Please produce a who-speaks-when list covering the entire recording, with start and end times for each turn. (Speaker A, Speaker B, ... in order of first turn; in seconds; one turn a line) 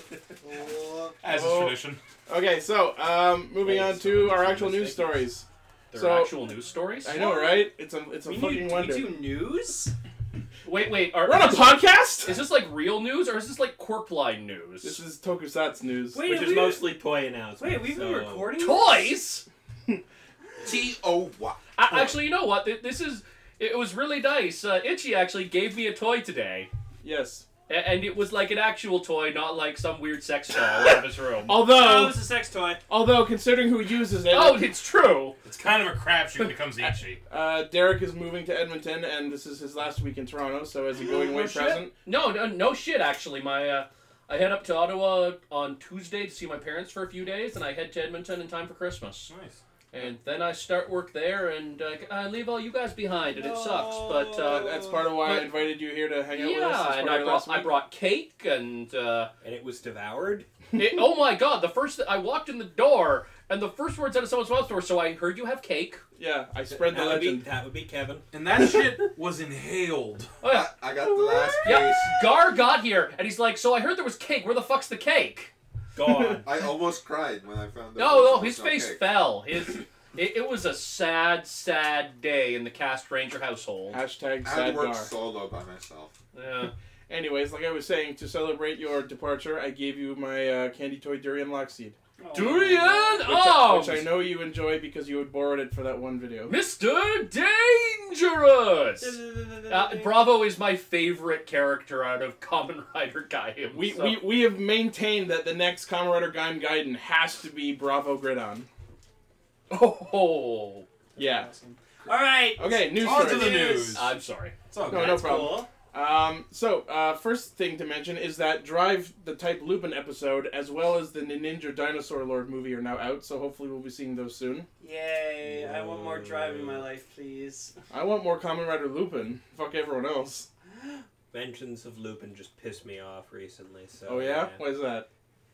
Speaker A: 0.4-1.2
Speaker B: 1.2-2.0
Speaker C: 1.3-6.3
Speaker D: 3.6-5.2
Speaker E: 5.9-7.2
Speaker C: 7.0-9.2
Speaker A: 7.2-7.6
Speaker A: 8.2-9.9
Speaker E: 10.7-15.0
Speaker C: 11.2-12.4
Speaker C: 14.8-16.2
Speaker A: 16.1-16.9
Speaker D: 16.2-18.6
Speaker A: 17.6-19.1
Speaker E: 18.6-19.4
Speaker F: 20.6-21.6
Speaker E: 21.8-26.7
Speaker C: 27.0-27.4
Speaker E: 27.7-31.6
Speaker C: 31.5-32.3
Speaker A: 31.6-32.8
Speaker C: 32.9-34.7
Speaker E: 34.3-35.4
Speaker B: 35.4-37.2
Speaker C: 37.3-41.9
Speaker B: 41.0-41.8
Speaker E: 42.1-49.3
Speaker B: 49.3-49.6
Speaker E: 49.9-55.5
Speaker A: 53.3-55.1
Speaker C: 54.4-57.7
Speaker E: 56.3-59.3
Speaker D: 59.4-60.5
Speaker E: 60.7-66.0
Speaker C: 66.2-67.5
Speaker D: 66.7-68.3
Speaker B: 68.3-70.3
Speaker C: 68.6-69.0
Speaker E: 70.4-70.7
Speaker F: 70.5-72.1
Speaker E: 71.6-75.5
Speaker D: 76.0-76.5
Speaker C: 76.0-76.4
Speaker F: 76.5-79.2
Speaker E: 78.0-84.0
Speaker C: 83.9-85.1
Speaker F: 84.4-86.2
Speaker E: 86.3-86.7
Speaker C: 87.1-96.5
Speaker A: 92.2-92.9
Speaker E: 92.3-94.1
Speaker E: 96.5-104.2
Speaker A: 99.0-100.3
Speaker C: 103.7-108.7
Speaker E: 109.7-110.9
Speaker C: 111.2-111.5
Speaker A: 111.2-114.0
Speaker C: 112.6-113.8
Speaker B: 112.9-114.1
Speaker E: 113.8-114.5
Speaker B: 114.7-115.3
Speaker C: 114.9-124.7
Speaker A: 114.9-115.7
Speaker A: 124.8-127.8
Speaker D: 125.4-126.9
Speaker C: 127.9-130.5
Speaker D: 131.3-134.6
Speaker C: 134.1-135.1